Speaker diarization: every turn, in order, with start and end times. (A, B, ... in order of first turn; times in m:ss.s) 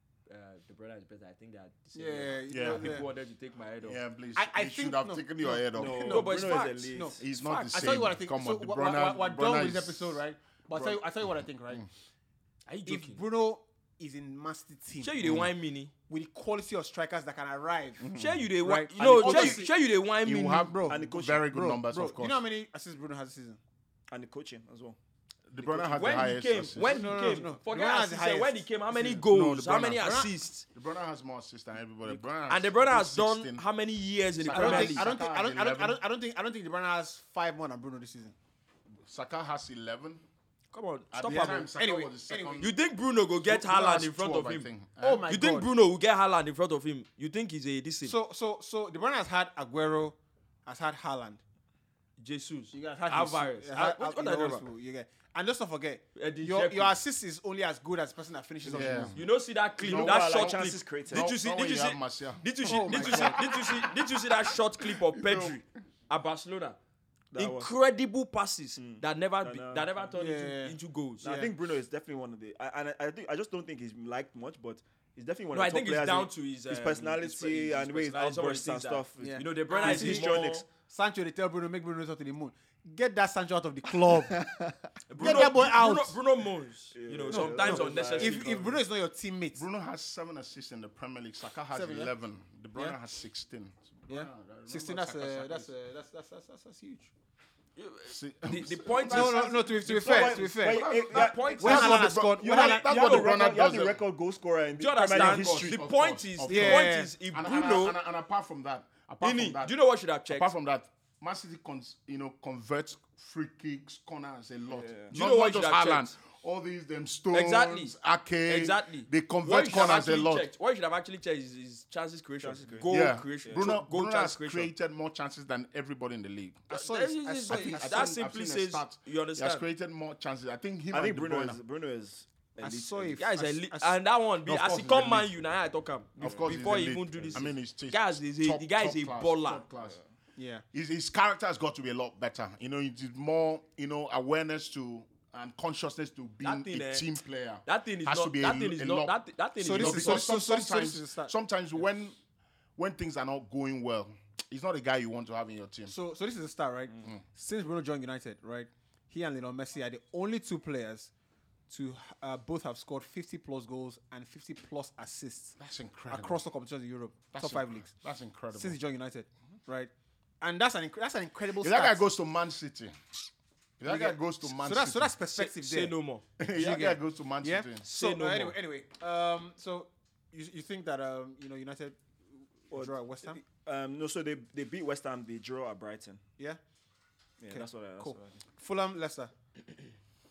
0:00.3-0:04.0 A
0:02.0-0:03.1 B
0:02.5-0:03.1 C
0:03.8-0:06.3 C
0:04.4-0:11.9 B
0:05.7-0:07.2 D
0:06.0-0:07.7 A
0:07.2-0:10.2 C
0:10.7-0:11.0 C
0:12.7-0:13.2 A
0:12.9-0:15.2 B
0:15.0-0:15.9 A
0:15.2-0:15.5 C
0:16.1-0:18.1 B
0:18.0-0:22.4 C
0:18.2-0:20.7 A
0:18.6-0:19.7 B
0:20.6-0:23.6 B
0:20.9-0:21.5 D
0:24.1-0:25.0 D
0:25.5-0:27.1 C
0:25.9-0:30.6 A
0:26.8-0:29.2 B
0:29.0-0:33.6 C
0:30.0-0:30.3 B
0:32.5-0:35.1 A
0:34.3-0:36.0 C
0:34.5-0:38.4 B
0:39.0-0:40.2 C
0:40.7-0:41.7 A
0:41.1-0:42.7 C
0:41.8-0:42.6 B
0:42.6-0:44.7 A
0:43.4-0:45.2 C
0:45.0-0:45.7 B
0:45.3-0:48.2 A
0:48.0-0:51.4 B
0:52.2-0:54.6 A
0:52.7-0:59.1 B
0:56.2-0:57.0 A
0:58.7-0:59.0 D
0:58.7-0:59.2 C
0:59.1-1:06.8 A
0:59.8-1:01.3 D
0:59.8-1:03.7 C
1:02.6-1:03.4 B
1:05.1-1:05.6 C
1:07.3-1:07.7 D
1:07.4-1:11.4 A
1:08.8-1:09.9 D
1:10.1-1:11.5 B
1:11.2-1:20.6 D
1:15.5-1:20.6 A
1:19.2-1:24.5 B
1:25.1-1:28.7 A
1:25.1-1:26.2 B
1:27.0-1:28.4 D
1:27.3-1:29.6 B
1:29.6-1:35.7 C
1:31.7-1:32.1 B
1:34.1-1:37.1 B
1:37.8-1:43.3 A
1:38.1-1:39.5 C
1:39.1-1:42.8 B
1:39.3-1:45.8 D
1:40.7-1:44.0 C
1:44.8-1:48.0 A
1:45.1-1:49.8 C
1:46.5-1:47.1 B
1:49.2-1:50.5 A
1:50.3-2:00.5 C
1:54.7-1:55.1 D
1:55.1-1:56.1 A
1:57.3-2:04.7 A
2:02.4-2:02.9 D
2:02.9-2:11.6 C
2:03.4-2:03.7 D
2:06.7-2:08.2 B
2:06.8-2:09.6 A
2:10.9-2:13.2 D
2:12.6-2:14.0 B
2:13.2-2:19.6 A
2:14.5-2:15.3 C
2:16.2-2:20.0 C
2:16.2-2:16.6 D
2:20.4-2:20.6 B
2:20.7-2:29.2 C
2:26.4-2:27.1 A
2:27.7-2:30.3 A
2:29.6-2:31.3 B
2:29.7-2:32.2 C
2:32.8-2:35.9 C
2:35.9-2:41.1 B
2:41.7-2:47.9 B
2:45.6-2:46.4 C
2:47.3-2:48.8 C
2:48.5-2:52.0 B
2:51.6-2:53.0 C
2:53.8-2:55.1 C
2:53.8-2:55.9 B
2:55.3-2:56.2 A
2:56.4-2:57.8 C
2:56.6-3:03.4 B
2:57.8-2:58.6 A
3:02.7-3:06.2 D
3:07.4-3:08.4 D
3:07.5-3:09.3 B